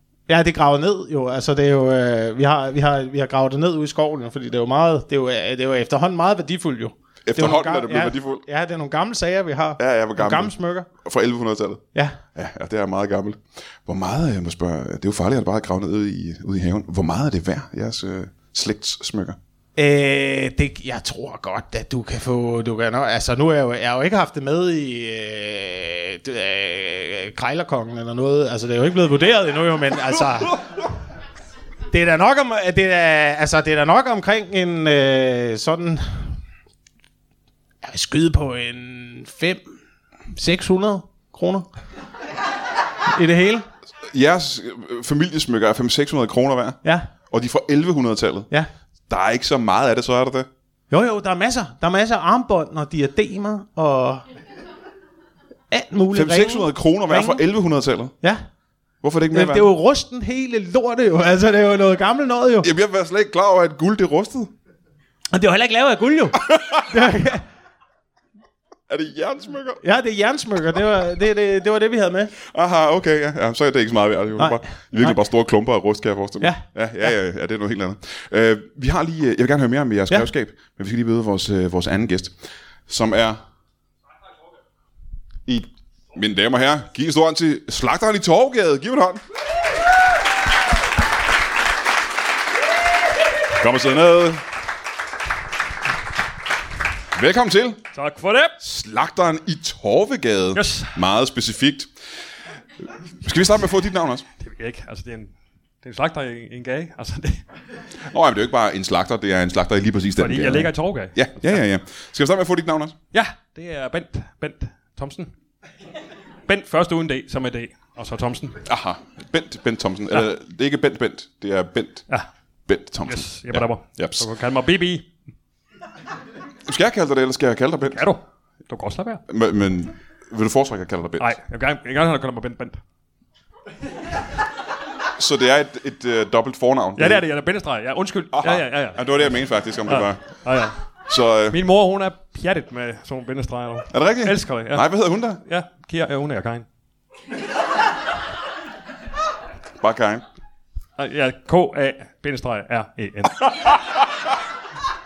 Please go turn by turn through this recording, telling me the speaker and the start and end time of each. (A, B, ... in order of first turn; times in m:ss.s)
0:00.3-0:10.9 A
0:07.2-0:08.4 B
0:09.8-0:11.8 B
0:12.3-0:19.4 B
0:19.8-0:30.6 A
0:31.9-0:36.3 A
0:37.8-0:39.6 A
0:40.3-0:41.6 A
0:43.1-0:43.6 A
0:44.1-0:46.8 B
0:47.3-0:48.5 B
0:49.1-0:50.5 B
0:50.9-0:54.2 A
0:55.7-0:57.4 A
0:56.1-0:58.1 B
0:59.0-0:59.7 B
0:59.3-1:02.7 A
1:02.6-1:04.5 B
1:05.3-1:07.4 A
1:06.4-1:06.8 B
1:08.9-1:09.8 B
1:09.8-1:12.3 A
1:12.5-1:23.4 B
1:14.4-1:15.1 A
1:16.4-1:17.1 A
1:25.4-1:29.2 B
1:33.5-1:34.4 B
1:37.1-1:37.8 B
1:37.9-1:38.6 C
1:38.6-1:41.9 B
1:40.5-1:41.0 C
1:43.2-1:44.2 B
1:44.4-1:45.3 C
1:45.8-1:47.4 C
1:48.1-1:53.0 B
1:50.2-1:51.6 C
1:53.1-1:55.3 C
1:56.5-1:58.6 C
1:58.6-2:02.0 B
2:02.7-2:04.3 B
2:03.0-2:05.1 C
2:06.6-2:08.0 B
2:07.9-2:09.2 C
2:09.3-2:11.3 B
2:11.2-2:12.8 C
2:15.2-2:17.2 B
2:17.0-2:20.8 C
2:18.3-2:20.2 B
2:21.1-2:21.6 B
2:21.5-2:26.6 C
2:23.9-2:25.4 B
2:29.8-2:30.2 B
2:31.0-2:33.9 C